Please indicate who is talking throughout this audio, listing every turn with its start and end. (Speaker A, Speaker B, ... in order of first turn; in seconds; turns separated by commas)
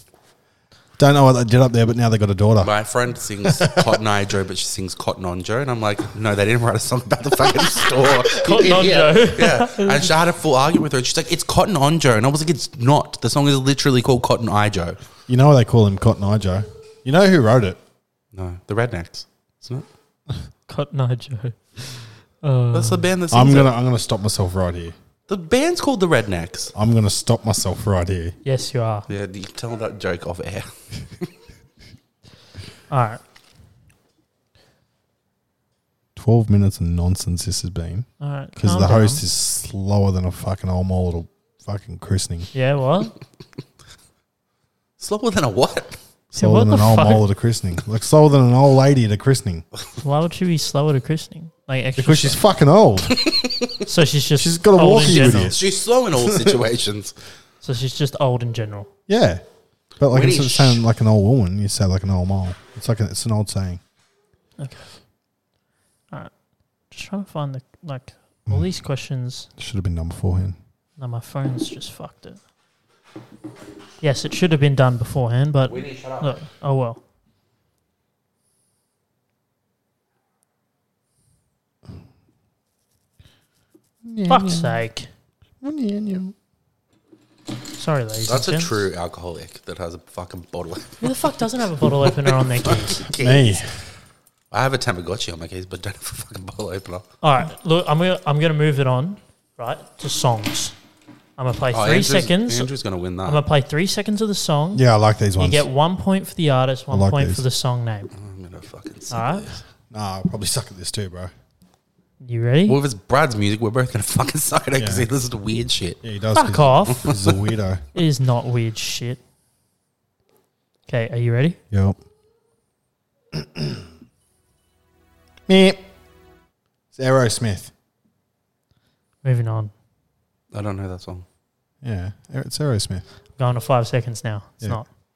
Speaker A: 1.0-2.7, Speaker B: 2.6-15.0, Speaker A: 3.4-4.0, Speaker C: 8.3-10.1, Speaker A: 15.3-17.8, Speaker B: 18.3-19.9, Speaker C: 20.7-23.1, Speaker B: 22.7-23.8, Speaker A: 23.3-24.9, Speaker B: 25.3-26.7, Speaker A: 26.8-28.4, Speaker C: 28.4-29.1, Speaker B: 29.1-31.3, Speaker C: 32.9-33.2, Speaker A: 36.2-42.5, Speaker C: 38.2-39.2, Speaker C: 42.5-43.1, Speaker B: 45.0-46.0, Speaker A: 46.3-49.6, Speaker C: 46.4-47.2, Speaker C: 50.0-52.4, Speaker A: 52.0-53.2, Speaker B: 53.1-53.8, Speaker C: 53.9-55.5, Speaker A: 54.4-55.6, Speaker B: 55.1-57.1, Speaker A: 56.2-56.6, Speaker C: 57.6-58.9, Speaker A: 59.1-59.4, Speaker A: 60.0-63.8, Speaker B: 60.1-60.8, Speaker C: 64.6-64.9, Speaker C: 66.9-69.5, Speaker A: 69.6-70.6, Speaker C: 71.0-72.4, Speaker C: 74.0-77.0, Speaker B: 75.7-76.4, Speaker A: 84.0-84.8, Speaker C: 84.3-85.1, Speaker A: 85.6-86.3, Speaker C: 87.8-88.8, Speaker B: 88.3-91.2, Speaker C: 91.0-93.1, Speaker B: 92.6-93.6, Speaker A: 93.1-93.7, Speaker B: 94.5-97.0, Speaker C: 97.2-100.8, Speaker C: 101.4-102.7, Speaker B: 101.7-103.4, Speaker C: 103.2-104.8, Speaker A: 104.7-105.7, Speaker C: 105.4-108.1, Speaker A: 106.9-107.4, Speaker B: 108.1-109.6, Speaker C: 109.1-109.5, Speaker A: 109.9-111.3, Speaker C: 112.2-112.8, Speaker B: 112.7-116.0, Speaker A: 114.7-115.1, Speaker A: 116.0-117.8, Speaker C: 116.3-117.1, Speaker B: 117.0-117.4, Speaker C: 117.9-119.2, Speaker C: 120.9-121.6, Speaker A: 121.7-122.0, Speaker A: 123.3-123.9, Speaker A: 125.5-125.8, Speaker A: 126.9-127.7, Speaker C: 129.2-129.7, Speaker B: 130.5-131.2, Speaker A: 131.8-133.0, Speaker C: 133.4-134.9